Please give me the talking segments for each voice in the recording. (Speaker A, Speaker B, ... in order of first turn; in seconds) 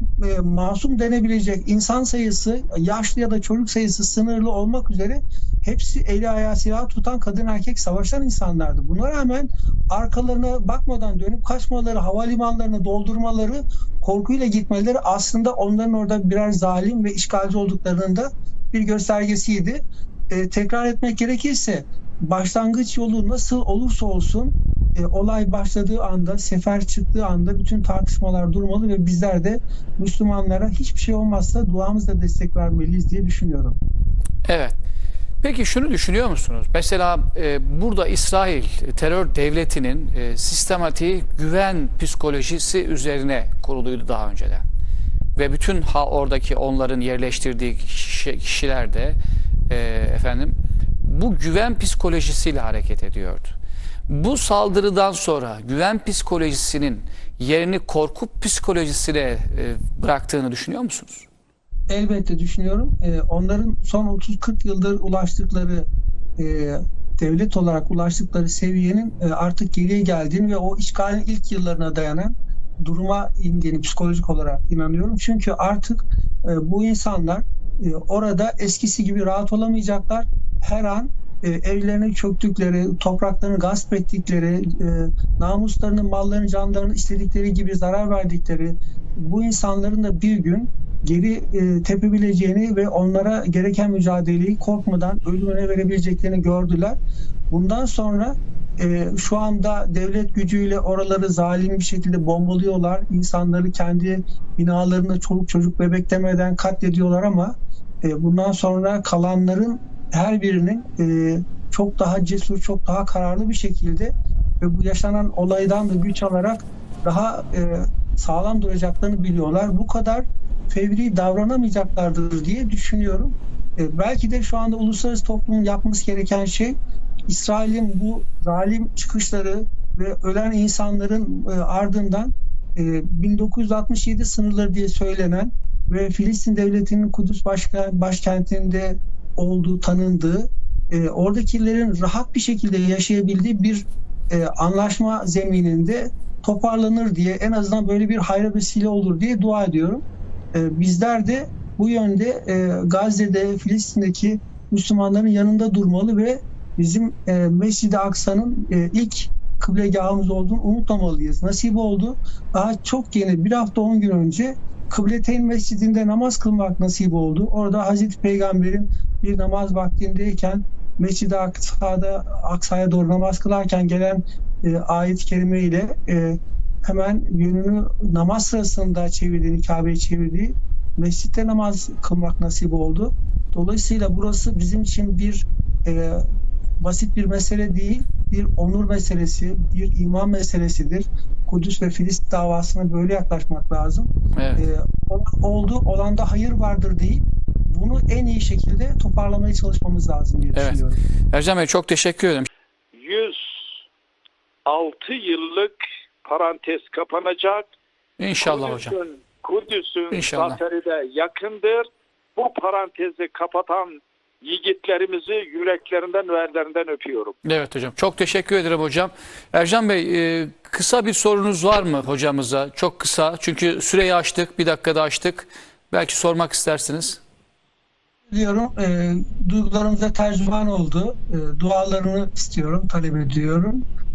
Speaker A: 0.2-33.8, 61.9-65.9, 66.4-97.0, 97.5-126.8, 127.3-150.0, 150.5-186.2, 186.8-201.0, 228.3-233.8
Speaker B: 34.5-34.8, 35.4-44.7, 45.4-49.2, 49.7-53.5, 54.1-61.3, 194.3-194.7, 200.6-200.8, 201.3-202.5, 208.2-209.0, 210.1-210.6, 217.4-227.2
Speaker C: 203.0-203.7, 204.7-207.7, 208.4-217.3